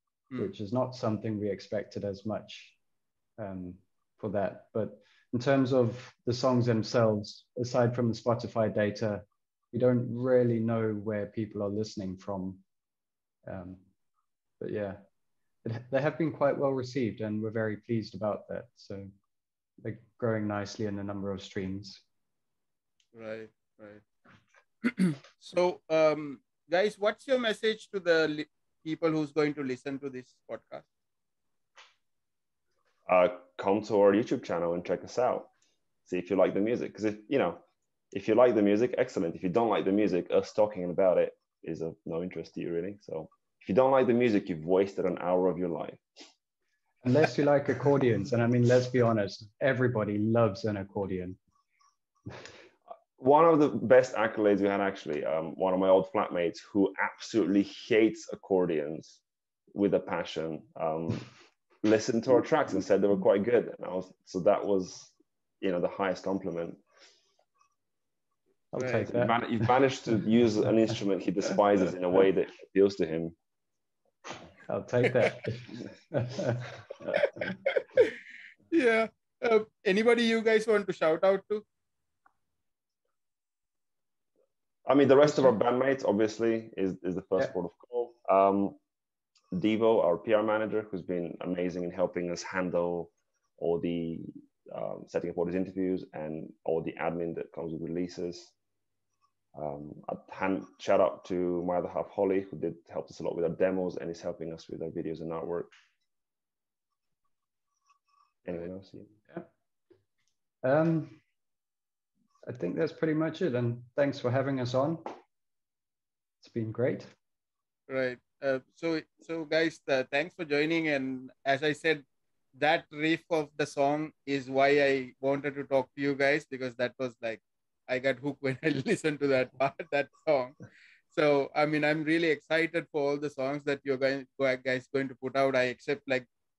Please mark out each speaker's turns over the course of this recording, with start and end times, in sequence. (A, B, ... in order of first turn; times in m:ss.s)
0:00.4-0:02.8 A
0:03.4-0:12.6 A
0:13.4-0:13.8 A
0:14.6-0:15.0 A
0:15.6-0:19.1 A
0:19.8-0:22.0 A
0:23.1-0:24.0 B
0:24.8-0:30.8 B
0:33.0-0:35.5 C
0:36.0-0:46.0 C
0:47.0-0:51.4 A
0:53.2-0:59.2 C
0:59.7-1:01.3 C
1:01.8-1:06.8 C
1:08.7-1:09.7 A
1:08.8-1:09.1 B
1:09.0-1:13.3 C
1:14.7-1:17.2 A
1:17.2-1:18.1 B
1:18.7-1:21.6 B
1:24.8-1:28.8 C
1:29.5-1:38.5 C
1:39.5-1:45.7 C
1:48.4-1:49.1 C
1:50.6-1:51.2 A
1:52.4-1:55.1 A
1:56.4-1:57.1 A
1:57.9-2:10.6 B
2:11.1-2:16.3 B